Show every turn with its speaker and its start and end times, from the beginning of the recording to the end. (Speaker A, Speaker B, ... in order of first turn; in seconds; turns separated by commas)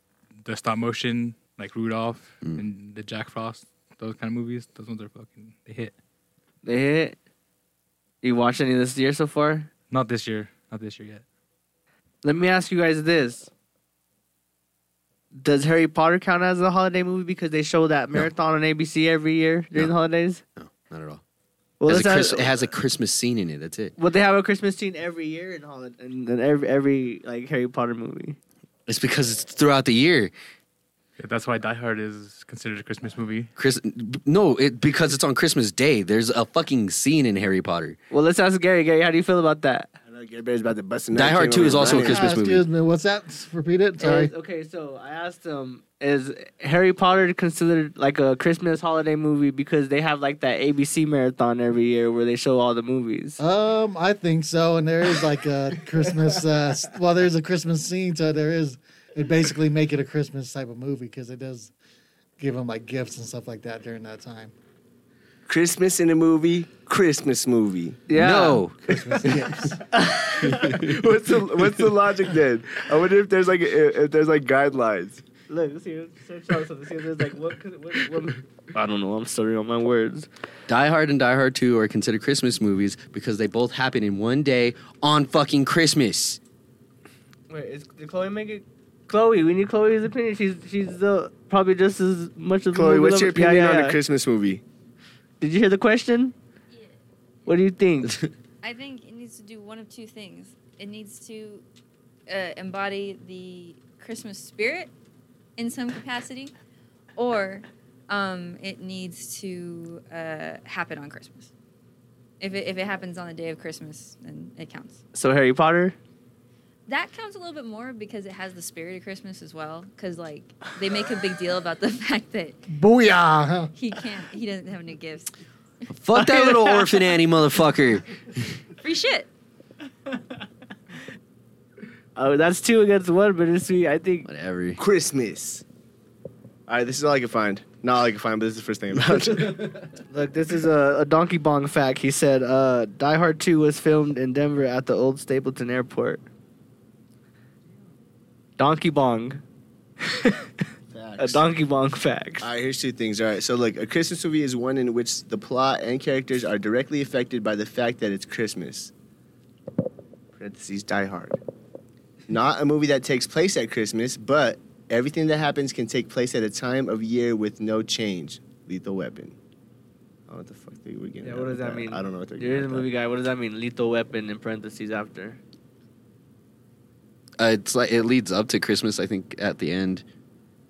Speaker A: 0.4-5.9, Speaker B: 6.6-7.2, Speaker B: 8.2-9.7, Speaker A: 9.9-11.2, Speaker B: 12.2-13.5, Speaker B: 15.4-20.4, Speaker C: 20.6-21.2, Speaker B: 21.8-22.6, Speaker C: 21.9-23.9, Speaker B: 24.0-28.4, Speaker C: 28.9-30.3, Speaker A: 31.2-33.5, Speaker C: 33.5-38.0, Speaker B: 38.1-39.9, Speaker D: 40.1-42.2, Speaker C: 41.1-42.6, Speaker E: 41.8-44.3, Speaker B: 44.0-53.4, Speaker E: 53.4-61.7, Speaker E: 62.4-64.5, Speaker D: 65.5-68.1, Speaker B: 68.1-68.6, Speaker C: 68.1-69.0, Speaker E: 68.9-69.8, Speaker B: 69.9-70.7, Speaker D: 70.5-75.2, Speaker B: 75.5-80.3, Speaker C: 80.7-86.4, Speaker B: 87.5-94.0, Speaker D: 92.7-94.6, Speaker B: 95.4-96.3, Speaker B: 97.5-98.2, Speaker F: 98.6-101.6, Speaker F: 102.3-104.9, Speaker F: 105.6-106.5, Speaker F: 107.2-111.5, Speaker F: 112.4-115.0, Speaker B: 115.1-116.0, Speaker F: 116.9-122.6, Speaker E: 122.7-123.7, Speaker F: 123.7-125.3, Speaker C: 125.9-128.5, Speaker B: 126.2-126.8, Speaker F: 128.8-129.3, Speaker B: 132.2-134.3, Speaker C: 134.2-134.8, Speaker D: 134.8-135.6, Speaker D: 136.7-139.8, Speaker B: 140.1-146.2, Speaker B: 148.6-149.4, Speaker B: 150.0-150.5, Speaker D: 150.9-151.4, Speaker B: 151.2-152.5, Speaker D: 152.4-158.9, Speaker D: 160.3-161.4, Speaker D: 162.3-169.3, Speaker D: 170.3-172.9, Speaker B: 171.2-175.4, Speaker C: 177.4-180.0